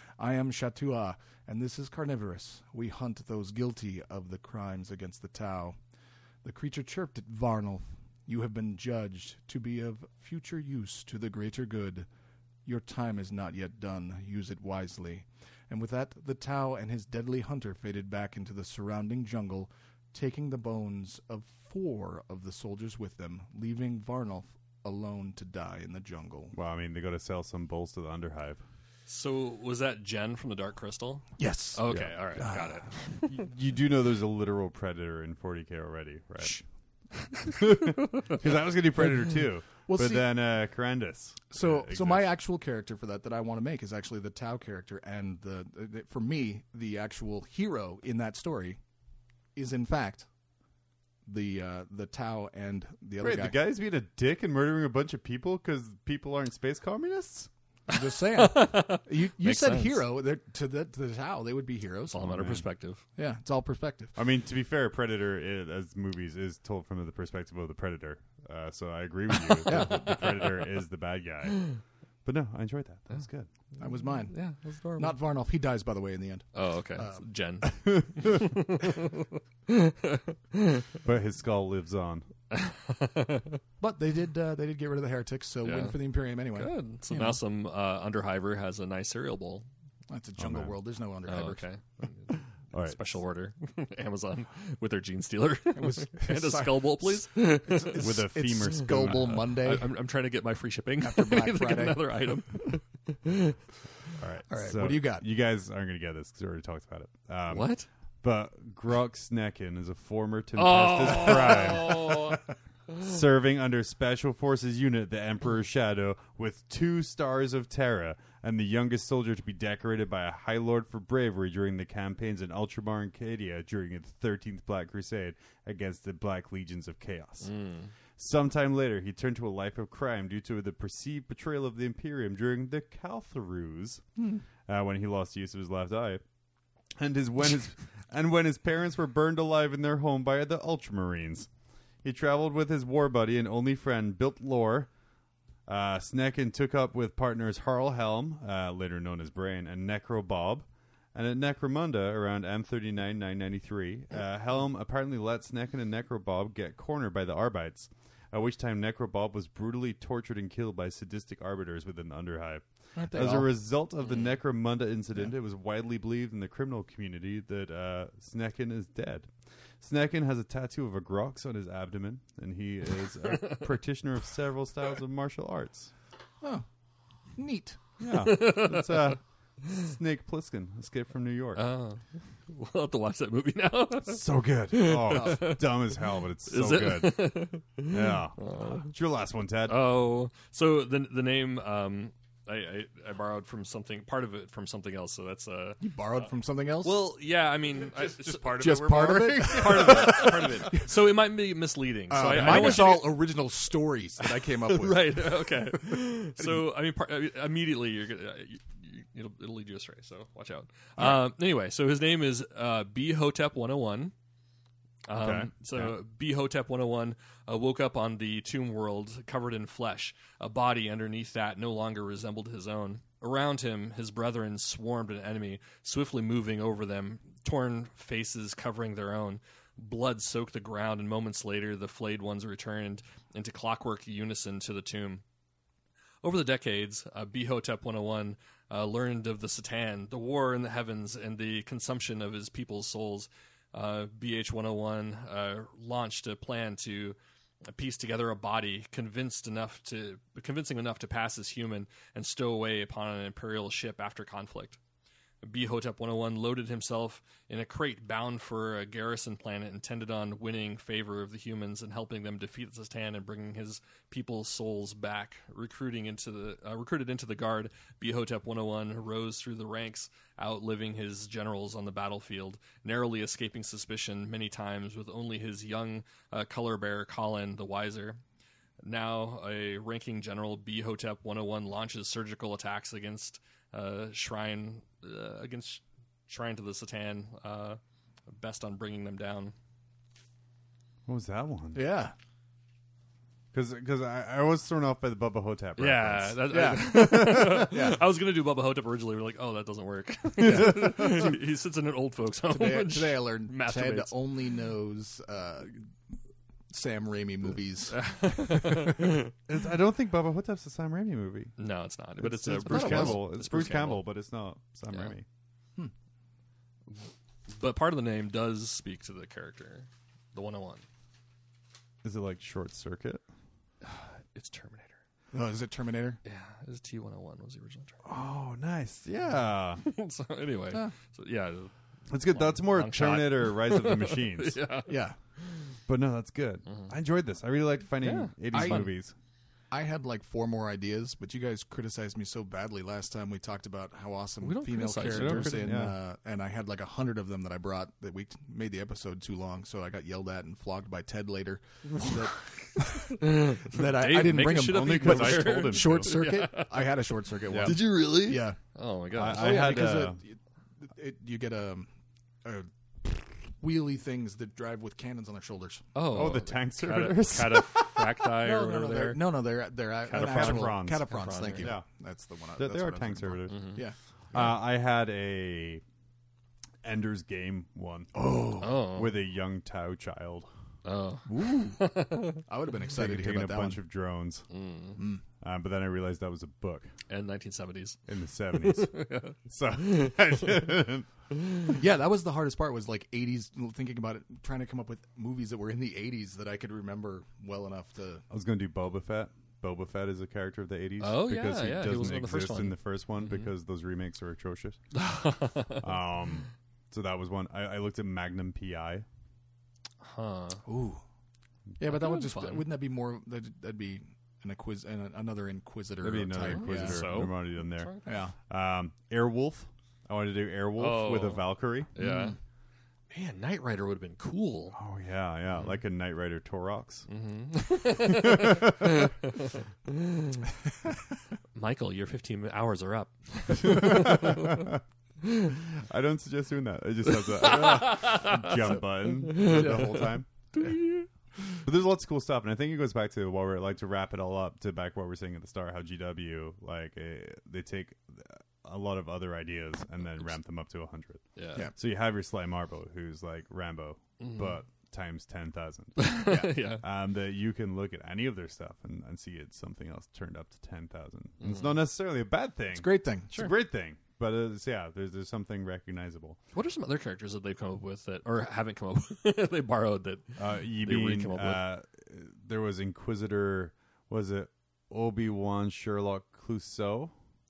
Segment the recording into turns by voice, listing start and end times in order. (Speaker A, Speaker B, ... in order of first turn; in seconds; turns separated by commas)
Speaker A: 0.2-5.8, Speaker A: 6.4-12.1, Speaker A: 12.7-26.5, Speaker B: 26.5-28.6, Speaker C: 29.1-33.5, Speaker A: 31.4-32.8, Speaker B: 33.2-36.6, Speaker B: 37.5-42.3, Speaker A: 39.9-40.3, Speaker A: 41.5-48.8, Speaker A: 49.5-50.3, Speaker A: 51.2-53.5, Speaker B: 53.2-57.5, Speaker A: 57.9-62.6, Speaker C: 57.9-60.0, Speaker C: 62.1-63.0, Speaker A: 63.1-64.1, Speaker B: 64.1-71.7, Speaker A: 69.6-70.2, Speaker B: 72.2-73.5, Speaker C: 73.8-75.2, Speaker A: 73.8-74.3, Speaker A: 75.0-77.2, Speaker C: 76.5-80.8, Speaker B: 81.0-82.3, Speaker C: 82.5-83.6, Speaker A: 83.8-87.4, Speaker C: 85.6-89.7, Speaker A: 90.1-91.7, Speaker B: 90.4-90.7, Speaker C: 91.2-98.2, Speaker B: 92.7-93.0, Speaker A: 95.7-99.9, Speaker B: 97.9-99.5, Speaker C: 99.0-103.5, Speaker A: 101.0-102.1, Speaker B: 104.2-112.3, Speaker A: 104.5-105.2, Speaker C: 107.5-107.8, Speaker C: 110.6-112.4, Speaker B: 113.0-127.5, Speaker C: 127.4-127.9, Speaker B: 128.2-134.0, Speaker B: 134.7-136.2, Speaker B: 137.0-141.5, Speaker B: 142.0-144.9, Speaker B: 145.7-175.9, Speaker A: 162.9-163.5, Speaker A: 177.3-177.8, Speaker B: 178.0-181.6, Speaker C: 178.3-178.9, Speaker C: 181.6-185.9, Speaker B: 184.1-189.8, Speaker A: 185.1-185.4, Speaker C: 186.5-188.9, Speaker C: 189.7-195.8, Speaker A: 195.8-197.1, Speaker C: 196.8-203.2, Speaker A: 197.9-200.9, Speaker A: 202.1-206.7, Speaker B: 202.3-202.8, Speaker C: 204.2-214.1, Speaker C: 215.1-235.2, Speaker B: 215.1-216.0, Speaker C: 236.2-247.2, Speaker C: 247.7-254.8, Speaker C: 255.4-278.2, Speaker C: 278.8-289.5, Speaker B: 291.1-291.9, Speaker A: 291.7-292.1, Speaker B: 293.5-297.7, Speaker C: 295.8-304.1, Speaker A: 296.5-298.0, Speaker A: 300.4-301.4, Speaker B: 300.4-301.2, Speaker A: 302.5-305.8, Speaker A: 306.7-309.2, Speaker C: 307.9-309.3, Speaker B: 309.5-311.5, Speaker C: 311.6-314.0, Speaker B: 312.2-315.2, Speaker A: 312.6-313.2, Speaker C: 317.5-320.8, Speaker B: 322.0-323.2, Speaker C: 323.8-325.0, Speaker A: 325.3-326.2, Speaker C: 326.2-328.0, Speaker B: 328.0-329.8, Speaker C: 329.8-335.6, Speaker B: 332.1-334.6, Speaker A: 334.9-335.1, Speaker B: 335.9-339.1, Speaker C: 338.0-338.9, Speaker A: 338.5-338.9, Speaker A: 339.7-358.6, Speaker C: 344.4-345.7, Speaker B: 345.1-345.9, Speaker C: 351.9-352.3, Speaker C: 352.8-359.9, Speaker B: 354.6-356.1, Speaker B: 357.6-358.5, Speaker B: 359.1-360.2, Speaker A: 359.2-361.9, Speaker A: 362.4-365.9, Speaker C: 365.9-369.2, Speaker B: 366.1-368.1, Speaker A: 368.4-374.5, Speaker C: 370.1-371.7, Speaker B: 370.1-371.9, Speaker B: 372.6-373.8, Speaker C: 373.5-373.8, Speaker B: 374.3-375.8, Speaker B: 376.8-380.5, Speaker A: 378.1-379.0, Speaker C: 378.6-379.1, Speaker C: 380.8-382.4, Speaker A: 381.3-381.8, Speaker A: 382.4-383.8, Speaker B: 382.9-384.5, Speaker C: 384.5-385.0, Speaker A: 385.0-385.2, Speaker B: 385.4-386.9, Speaker C: 387.1-388.0, Speaker B: 388.1-391.1, Speaker C: 388.6-389.3, Speaker A: 391.7-398.2, Speaker B: 398.3-404.8, Speaker C: 401.0-403.5, Speaker C: 404.9-405.8, Speaker B: 405.8-409.0, Speaker C: 410.0-410.6, Speaker A: 410.6-411.0, Speaker A: 411.8-417.1, Speaker C: 411.8-412.6, Speaker B: 416.0-417.9, Speaker C: 416.4-418.1, Speaker A: 418.1-418.3, Speaker B: 418.5-421.9, Speaker C: 420.8-422.4, Speaker A: 422.0-422.4, Speaker C: 423.1-424.8, Speaker B: 424.7-427.1, Speaker C: 427.1-430.4, Speaker B: 428.1-428.8, Speaker C: 431.5-434.6, Speaker B: 433.6-434.8, Speaker B: 435.8-440.7, Speaker C: 437.1-441.1, Speaker B: 441.6-451.2, Speaker C: 451.4-451.7, Speaker B: 451.7-456.2, Speaker C: 454.2-454.5, Speaker C: 456.0-456.8, Speaker A: 456.2-456.5, Speaker B: 456.8-466.4, Speaker C: 461.4-461.7, Speaker A: 462.7-463.3, Speaker C: 466.5-471.6, Speaker B: 470.4-477.1